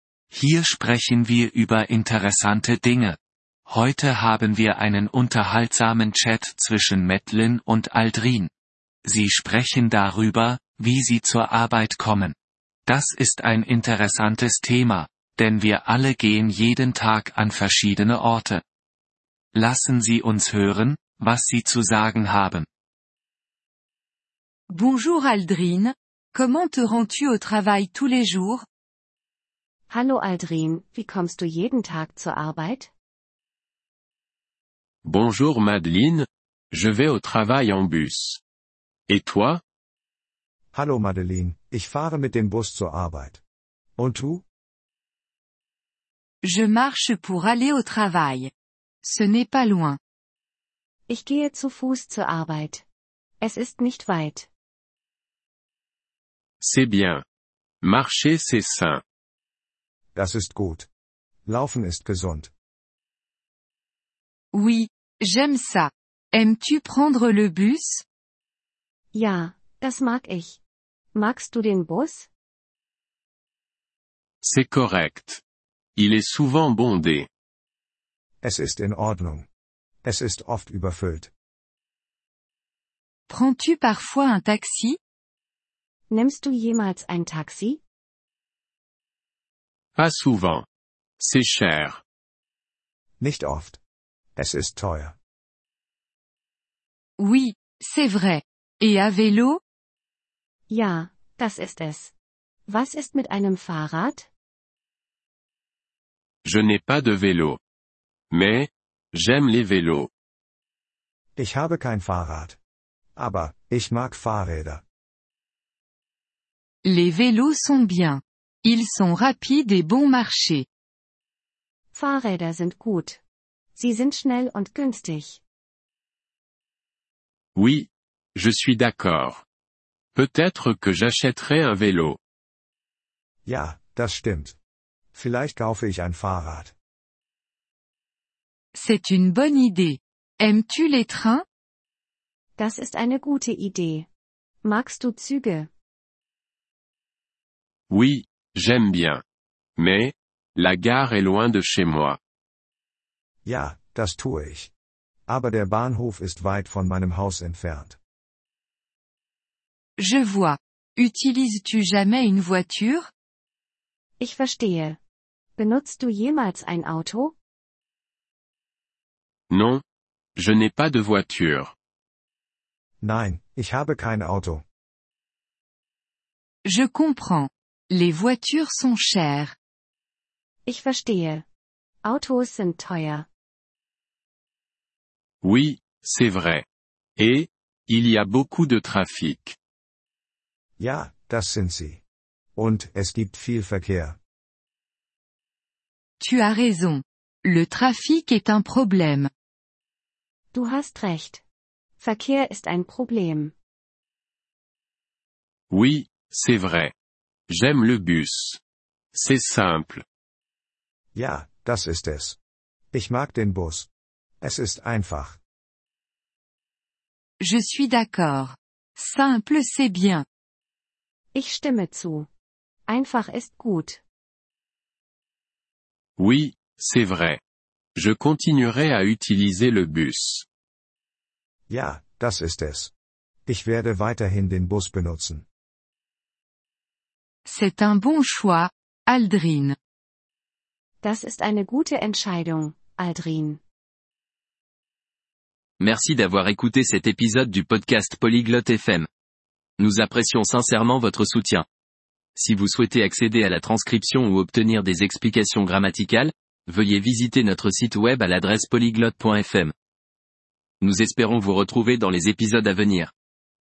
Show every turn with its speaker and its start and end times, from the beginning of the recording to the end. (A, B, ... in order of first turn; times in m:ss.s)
0:00.3-0:08.5 A
0:09.0-0:12.4 A
0:12.9-0:18.6 A
0:19.5-0:22.7 A
0:24.7-0:28.6 B
0:29.9-0:32.9 C
0:35.0-0:38.4 D
0:39.1-0:39.6 D
0:40.7-0:43.4 E
0:44.0-0:44.4 E
0:46.4-0:48.5 B
0:49.0-0:50.0 B
0:51.1-0:52.8 C
0:53.4-0:54.5 C
0:56.6-0:57.2 D
0:57.8-0:59.0 D
1:00.1-1:00.9 E
1:01.4-1:02.5 E
1:04.5-1:08.0 B
1:09.1-1:10.6 C
1:11.1-1:12.3 C
1:14.4-1:15.4 D
1:16.0-1:17.3 D
1:18.4-1:19.5 E
1:20.0-1:21.3 E
1:23.3-1:25.0 B
1:26.1-1:27.8 C
1:30.0-1:30.6 D
1:31.2-1:32.0 D
1:33.2-1:33.8 E
1:34.4-1:35.2 E
1:37.2-1:39.6 B
1:40.7-1:42.1 C
1:42.7-1:44.3 C
1:46.4-1:47.6 D
1:48.3-1:50.1 D
1:51.4-1:52.6 E
1:53.2-1:54.8 E
1:56.8-2:00.6 B
2:01.9-2:03.2 C
2:03.8-2:05.4 C
2:07.5-2:09.4 D
2:10.1-2:12.2 D
2:13.4-2:14.6 E
2:15.1-2:16.7 E
2:18.7-2:21.4 B
2:22.6-2:24.1 C
2:24.6-2:25.7 C
2:27.9-2:29.2 D
2:29.8-2:32.2 D
2:33.4-2:34.7 E
2:35.3-2:38.0 E
2:40.0-2:43.1 B
2:44.2-2:45.0 C
2:45.6-2:47.3 C
2:49.5-2:49.8 D
2:50.4-2:51.7 D
2:53.0-2:54.6 E
2:56.6-2:59.5 B
3:00.6-3:01.4 C
3:02.0-3:03.2 C
3:05.4-3:06.6 D
3:07.2-3:09.6 D
3:10.8-3:12.0 E
3:12.6-3:14.2 E
3:16.2-3:19.3 B
3:20.5-3:21.4 C
3:22.0-3:23.5 C
3:25.7-3:26.9 D
3:27.5-3:28.6 D
3:29.1-3:30.0 D
3:31.1-3:32.4 E
3:32.9-3:33.9 E
3:34.4-3:35.4 E
3:37.4-3:40.2 B
3:41.3-3:42.3 C
3:42.9-3:44.0 C
3:46.2-3:47.4 D
3:47.9-3:50.4 D
3:51.7-3:52.9 E
3:53.4-3:55.4 E
3:57.4-3:59.8 B
4:01.0-4:03.6 C
4:05.8-4:09.1 F
4:09.8-4:11.6 F
4:12.4-4:19.7 F
4:20.8-4:23.1 F